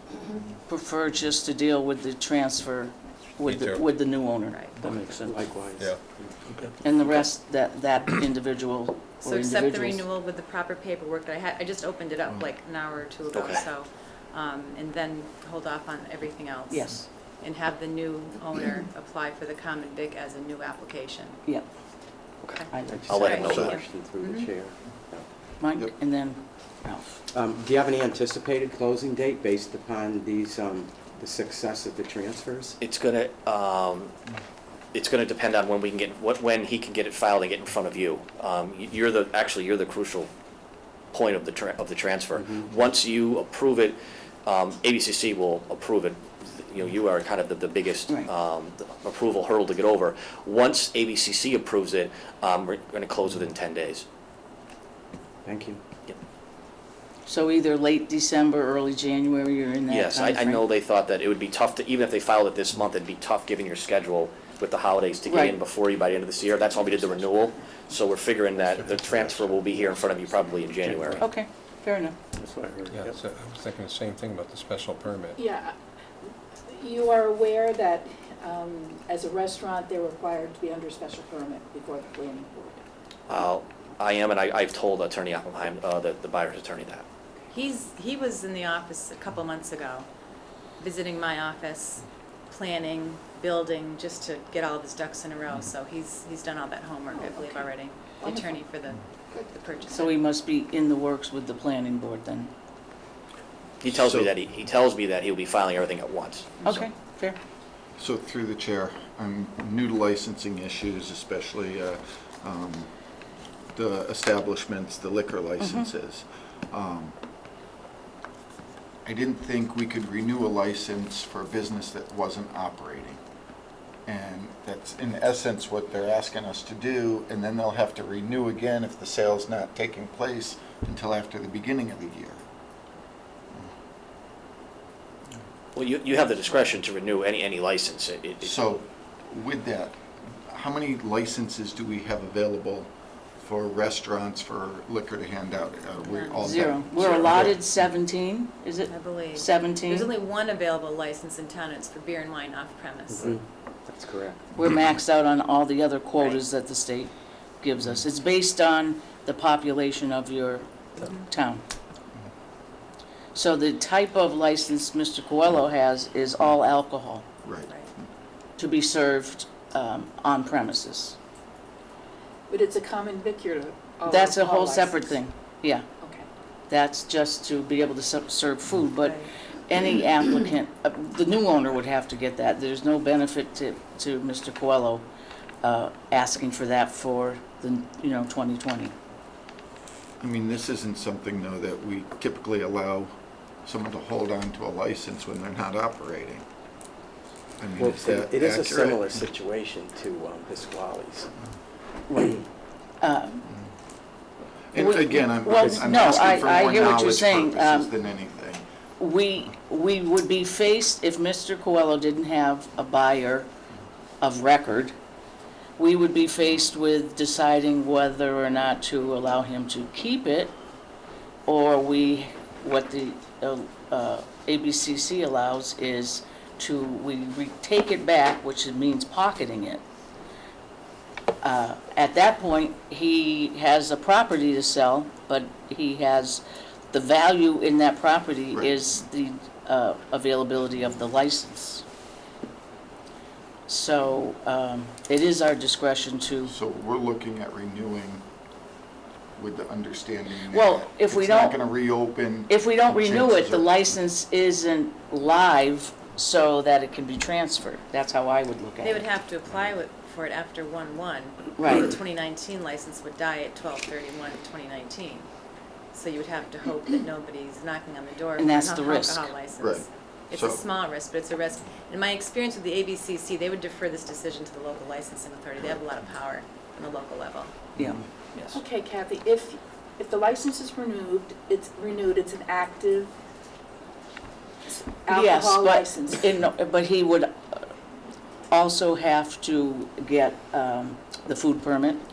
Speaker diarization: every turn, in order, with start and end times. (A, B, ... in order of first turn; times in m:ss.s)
0:00.6-0:04.6 A
0:03.4-0:03.9 B
0:04.5-0:04.8 C
0:04.8-0:05.4 D
0:04.8-0:06.4 E
0:05.8-0:06.8 B
0:06.8-0:10.0 A
0:09.2-0:21.4 C
0:13.3-0:13.7 D
0:16.7-0:17.1 A
0:22.4-0:23.4 D
0:22.5-0:24.5 C
0:22.7-0:23.6 A
0:22.9-0:25.2 E
0:23.4-0:23.7 F
0:25.6-0:27.1 A
0:27.3-0:32.8 E
0:32.8-0:34.2 D
0:34.9-0:40.3 D
0:41.1-0:54.0 D
0:42.4-0:42.7 E
0:55.4-0:55.8 E
0:57.3-1:00.7 A
0:59.9-1:11.2 D
1:05.2-1:05.6 A
1:08.6-1:10.0 B
1:10.9-1:11.2 E
1:11.2-1:12.2 A
1:12.4-1:13.2 E
1:12.9-1:15.4 B
1:15.4-1:15.8 G
1:16.7-1:22.8 G
1:23.3-1:27.1 D
1:27.5-1:30.1 C
1:30.8-1:40.2 C
1:37.1-1:37.7 G
1:38.2-1:38.6 G
1:39.9-1:42.5 A
1:43.8-1:46.6 D
1:43.9-1:44.3 F
1:46.6-1:47.4 A
1:48.0-1:52.9 F
1:53.7-1:57.2 F
1:55.6-1:55.9 A
1:59.0-2:03.2 F
2:04.1-2:12.4 F
2:15.8-2:18.7 D
2:18.4-2:27.7 F
2:26.0-2:26.5 C
2:26.4-2:30.1 A
2:27.0-2:27.3 D
2:28.9-2:33.4 C
2:33.1-2:34.5 E
2:34.5-2:41.6 A
2:43.3-2:47.2 A
2:47.4-2:47.7 F
2:48.6-2:51.2 A
2:52.5-2:55.1 G
2:54.1-2:55.9 A
2:56.7-3:05.1 A
2:59.0-2:59.3 C
3:05.6-3:08.9 A
3:10.2-3:16.4 F
3:17.6-3:19.1 F
3:17.8-3:21.3 E
3:22.1-3:22.4 A
3:23.0-3:23.4 A
3:24.7-3:28.6 F
3:24.8-3:27.9 A
3:29.0-3:33.5 A
3:34.2-3:35.0 A
3:35.8-3:40.6 A
3:41.5-3:49.8 A
3:51.4-4:01.8 A
3:58.5-3:59.0 F
4:03.7-4:06.5 A
4:06.5-4:08.2 F
4:09.4-4:13.8 F
4:10.5-4:11.6 A
4:12.5-4:19.0 A
4:18.8-4:25.3 C
4:21.6-4:21.9 A
4:25.9-4:37.5 C
4:28.4-4:29.3 A
4:29.6-4:30.6 F
4:38.5-4:43.1 G
4:44.7-4:46.3 G
4:45.1-4:47.7 A
4:48.5-4:52.0 A